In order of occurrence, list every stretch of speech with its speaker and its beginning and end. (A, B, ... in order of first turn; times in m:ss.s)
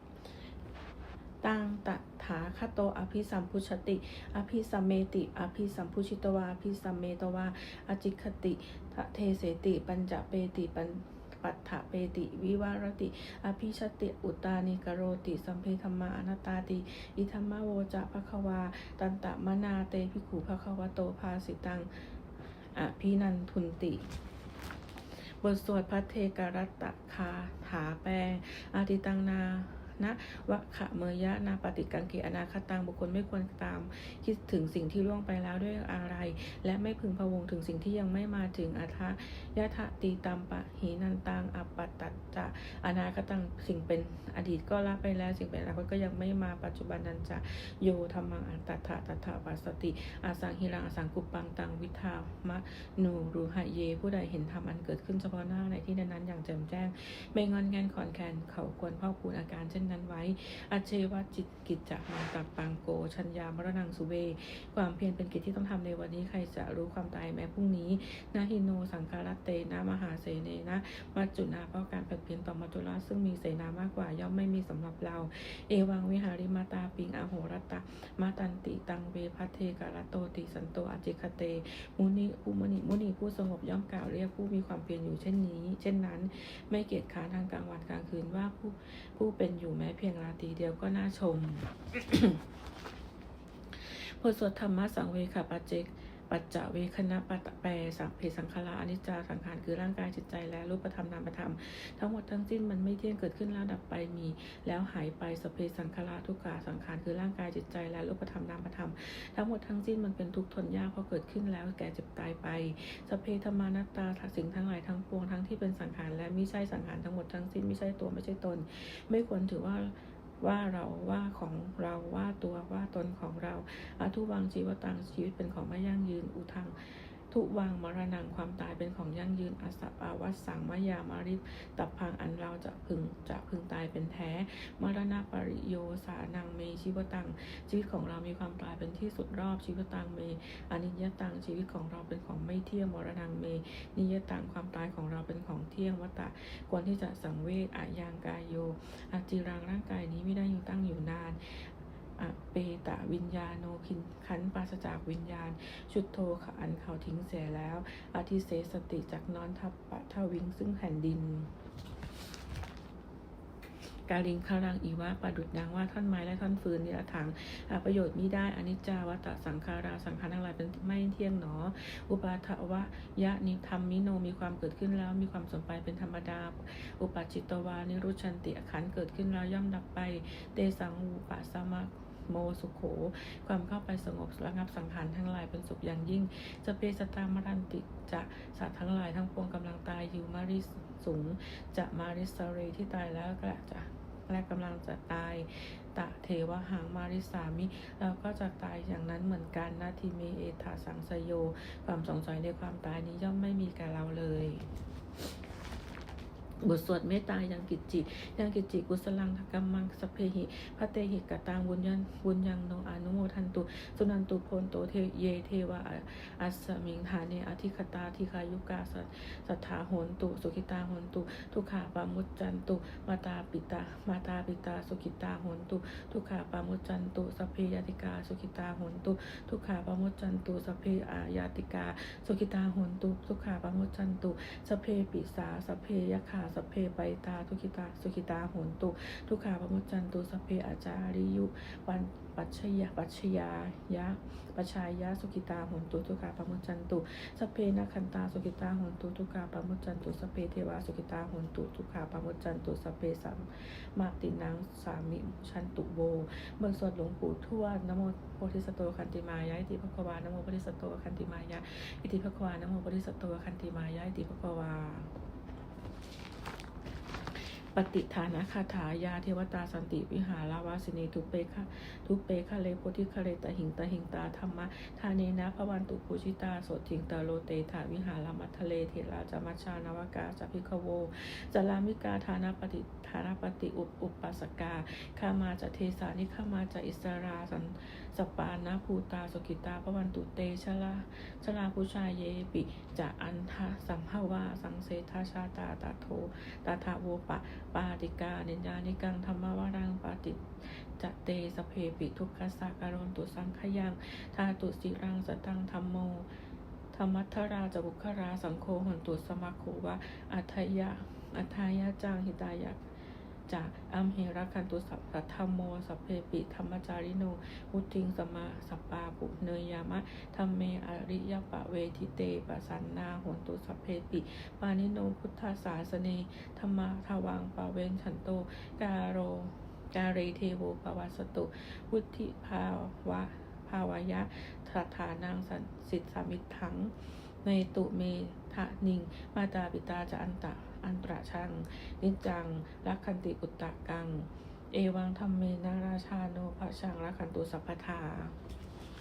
0:01.4-0:22.1 A
0:22.7-0:24.0 A
0:25.4-1:32.4 A
1:33.7-2:41.5 A
2:44.1-3:24.6 A
3:26.6-4:25.1 A
4:27.4-5:06.3 A
5:06.9-5:12.8 A
5:13.5-5:48.4 A